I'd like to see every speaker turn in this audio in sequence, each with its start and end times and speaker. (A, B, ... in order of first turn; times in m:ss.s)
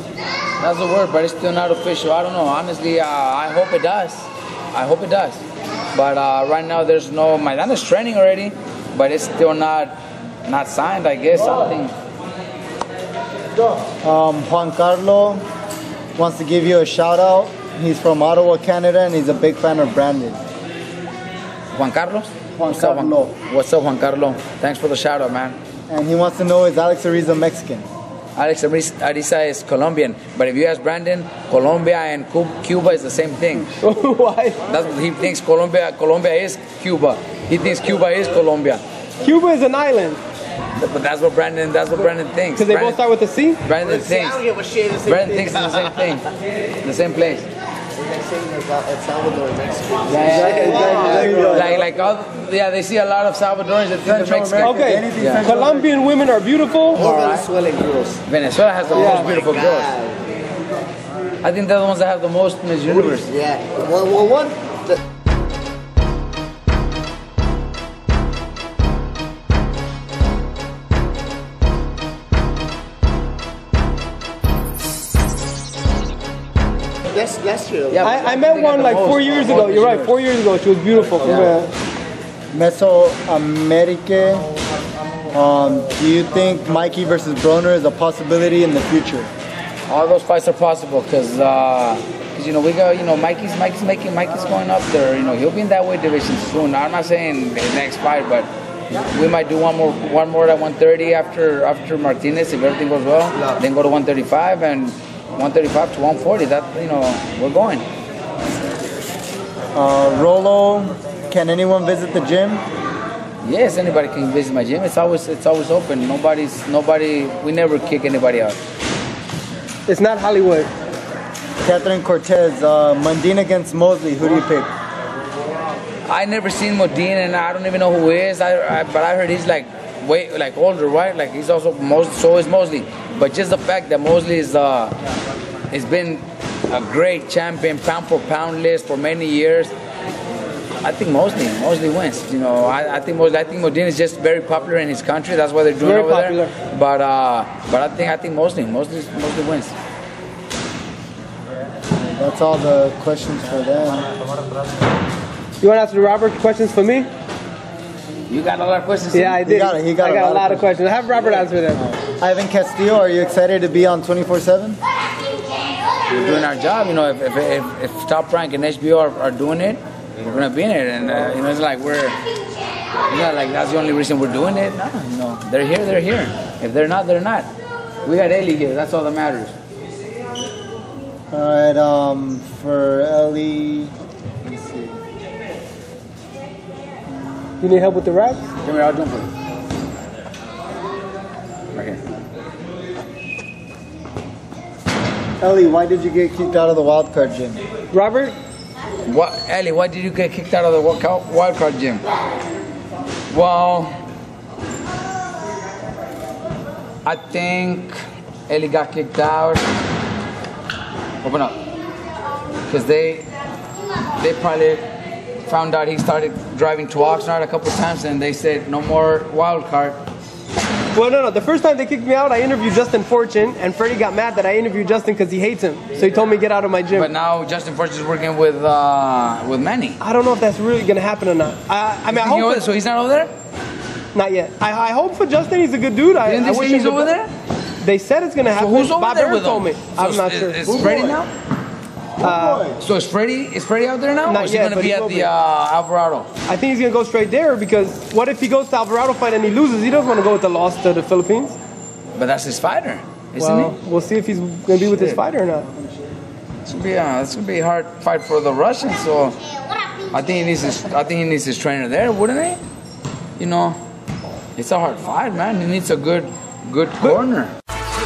0:00.6-0:05.4 A
0:05.9-0:11.9 A
0:13.7-0:15.4 B
0:16.2-0:20.4 B
0:21.7-0:25.6 A
0:22.6-0:23.3 B
0:25.9-0:27.9 B
0:28.4-0:33.7 A
0:33.8-0:34.6 C
0:34.7-0:38.8 A
0:39.2-0:40.2 C
0:40.7-0:43.0 A
0:42.6-0:43.6 C
0:43.6-0:44.4 A
0:43.8-0:45.9 D
0:45.0-0:46.3 A
0:46.8-0:47.5 A
0:48.0-0:51.8 D
0:50.1-0:55.4 A
0:50.6-0:51.8 B
0:50.6-0:51.5 C
0:54.0-0:55.9 B
0:54.6-0:57.0 C
0:56.9-0:58.2 D
0:57.0-0:57.5 A
0:58.2-0:59.9 A
0:58.9-1:00.2 D
0:58.9-0:59.3 C
1:01.4-1:03.3 A
1:03.0-1:05.0 D
1:17.1-1:18.2 D
1:17.9-1:20.1 A
1:18.0-1:21.6 C
1:21.2-1:21.5 D
1:21.3-1:21.6 B
1:22.5-1:24.4 B
1:25.3-1:29.3 B
1:29.9-1:38.5 A
1:39.0-1:47.8 A
1:49.7-1:52.6 B
1:53.4-1:58.6 A
1:59.9-2:00.7 C
2:01.6-2:04.7 B
2:06.1-2:14.9 A
2:15.7-2:19.7 A
2:20.8-2:29.7 A
2:25.8-2:26.5 C
2:32.0-2:34.1 B
2:35.6-2:37.1 C
2:38.3-2:39.4 A
2:39.1-2:41.8 C
2:39.4-2:40.7 B
2:41.8-2:44.8 B
2:46.1-2:52.2 A
2:53.1-2:57.5 A
2:58.0-2:59.5 A
3:01.3-3:05.0 B
3:07.6-3:08.4 C
3:08.6-3:09.3 A
3:11.7-3:12.0 A
3:15.4-3:17.6 B
3:17.9-3:18.4 C
3:19.0-3:22.0 A
3:23.3-3:23.9 A
3:27.0-3:27.9 A
3:28.5-3:29.6 A
3:31.2-3:31.6 A
3:32.7-3:33.3 A
3:34.2-3:34.8 A
3:35.4-3:40.0 A
3:40.9-3:47.1 C
3:46.9-3:50.0 A
3:50.0-3:52.6 C
3:52.1-3:53.3 A
3:54.1-3:57.1 C
3:56.2-3:57.3 A
3:57.8-4:01.2 C
3:58.5-4:01.3 A
4:02.2-4:02.6 C
4:02.2-4:02.8 B
4:02.8-4:06.3 A
4:04.2-4:05.3 C
4:06.4-4:11.6 C
4:12.2-4:13.7 A
4:13.4-4:15.7 C
4:16.6-4:19.4 A
4:20.1-4:22.6 A
4:23.4-4:23.8 A
4:24.6-4:27.5 A